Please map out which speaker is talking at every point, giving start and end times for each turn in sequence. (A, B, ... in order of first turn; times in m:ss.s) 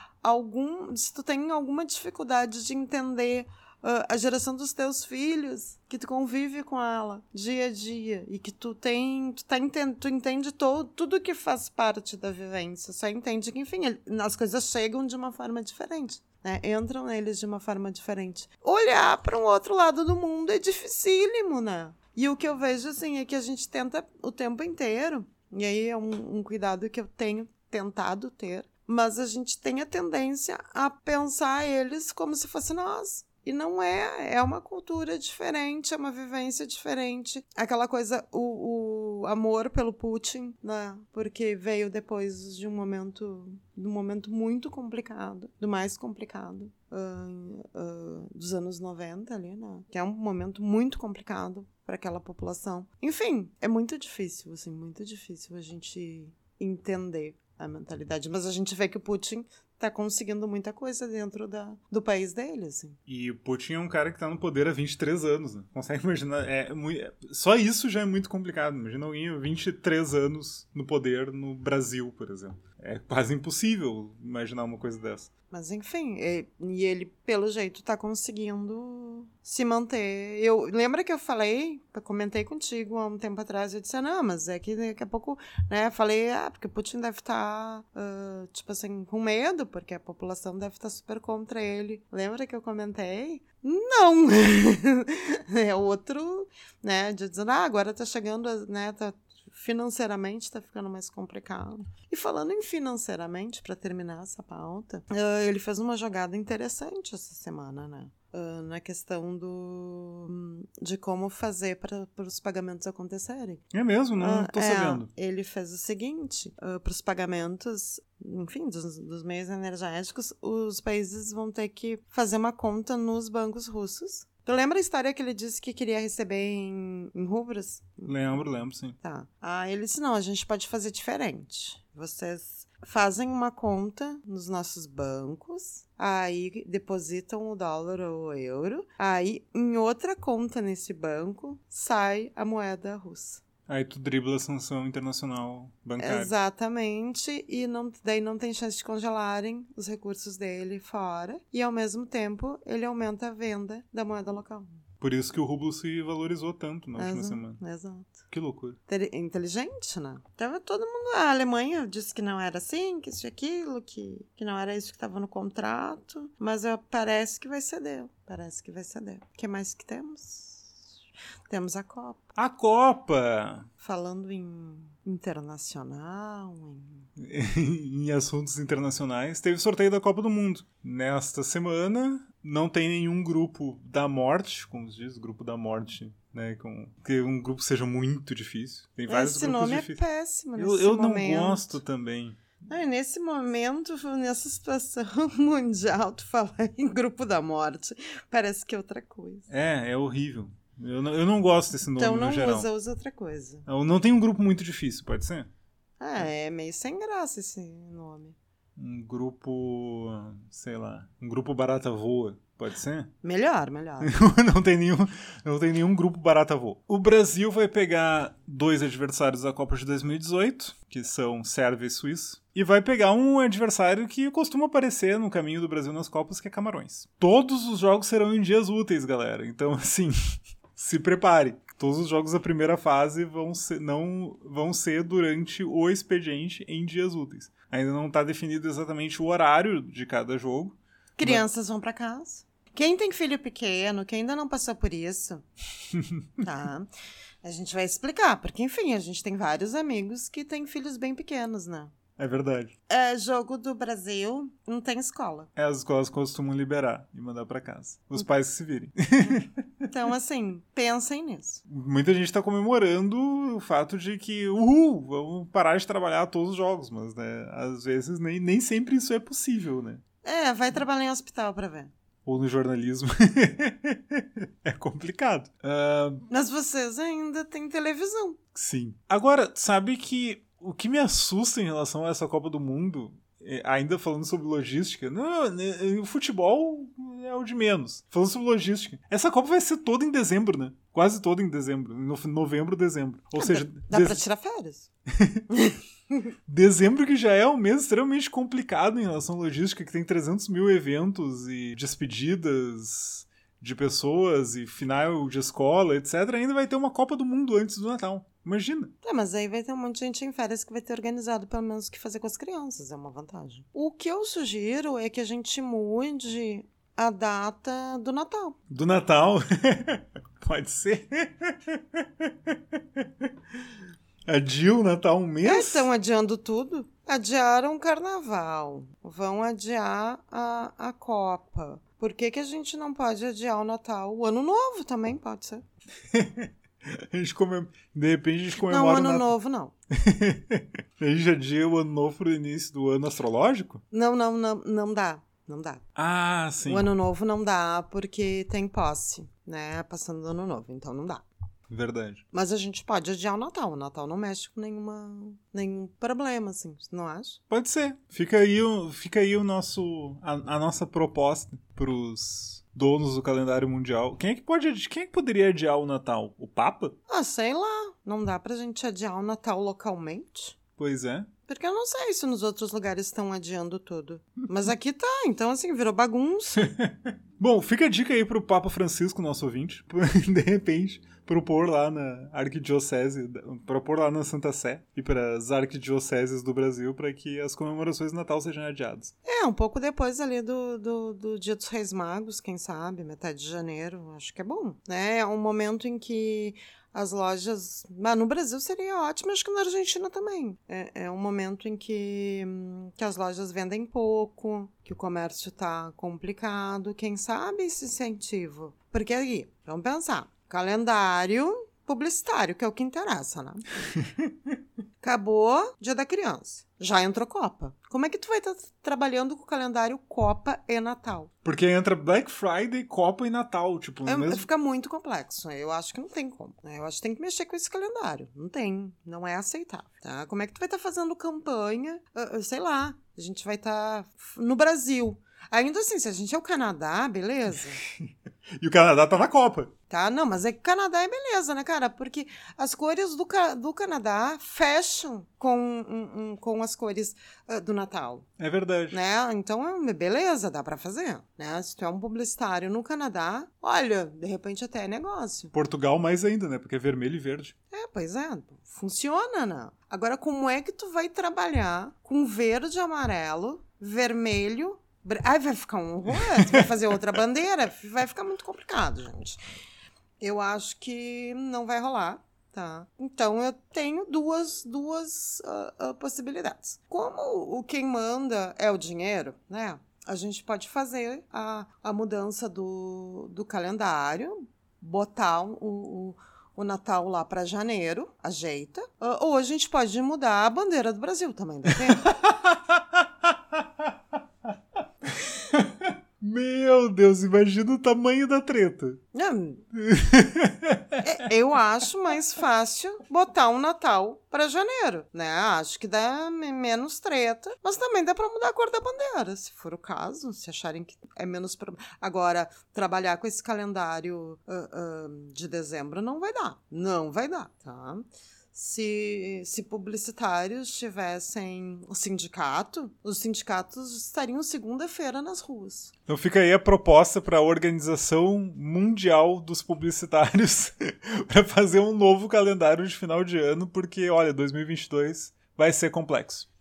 0:00.2-1:03.0 A
1:03.1-1:15.3 B
1:15.5-1:53.6 A
1:53.7-1:55.1 B
1:54.2-2:08.4 A
2:08.0-2:09.0 B
2:09.0-2:23.4 A
2:23.7-2:26.3 B
2:26.0-2:34.8 A
2:35.0-2:37.6 B
2:37.0-2:38.2 A
2:38.3-2:38.8 B
2:38.9-2:50.8 A
2:51.5-2:52.2 A
2:52.4-2:53.7 B
2:53.8-2:57.1 A
2:57.2-3:10.0 B
3:09.1-3:11.8 A
3:10.6-3:12.4 B
3:12.7-3:19.5 A
3:19.5-3:22.7 B
3:22.0-3:23.6 A
3:23.6-3:25.5 B
3:26.0-3:28.4 A
3:28.8-3:33.1 B
3:33.2-3:34.1 A
3:34.0-3:50.1 B
3:50.7-4:01.4 B
4:01.2-4:05.4 A
4:05.9-4:06.4 B
4:06.4-4:06.9 A
4:07.4-4:11.9 A
4:12.2-4:12.7 B
4:12.9-4:15.5 A
4:15.6-4:19.9 B
4:19.9-4:21.6 A
4:21.7-4:30.0 B
4:30.2-4:31.9 A
4:32.2-4:36.2 B
4:36.3-4:38.4 A
4:38.5-4:54.2 B
4:53.4-4:54.9 A
4:55.1-4:55.4 B
4:55.5-4:56.3 A
4:56.5-5:08.9 B
5:09.0-5:18.6 A
5:18.7-5:23.7 B
5:24.3-5:25.9 B
5:25.4-5:35.6 A
5:36.1-5:39.3 B
5:38.6-5:39.7 A
5:39.9-5:43.8 B
5:43.9-5:45.8 A
5:46.0-5:46.9 B
5:46.6-5:51.2 A
5:51.7-5:52.2 B
5:52.3-5:57.4 A
5:57.5-6:07.0 B
6:07.1-6:10.6 A
6:10.8-6:11.3 B
6:11.5-6:16.7 A
6:16.6-6:29.1 B
6:29.2-6:53.7 A
6:53.9-6:54.5 B
6:55.0-7:01.3 A
7:01.4-7:04.4 B
7:04.0-7:17.8 A
7:17.8-7:19.7 B
7:19.9-7:28.3 A
7:28.4-7:29.0 B
7:28.9-7:35.5 A
7:35.5-7:37.5 B
7:37.7-7:49.4 A
7:46.2-7:46.7 B
7:50.2-8:12.2 A
8:12.1-8:13.9 B
8:15.2-8:19.0 B
8:19.1-8:19.6 A
8:19.7-8:21.0 B
8:21.0-8:45.9 A
8:46.1-8:56.5 B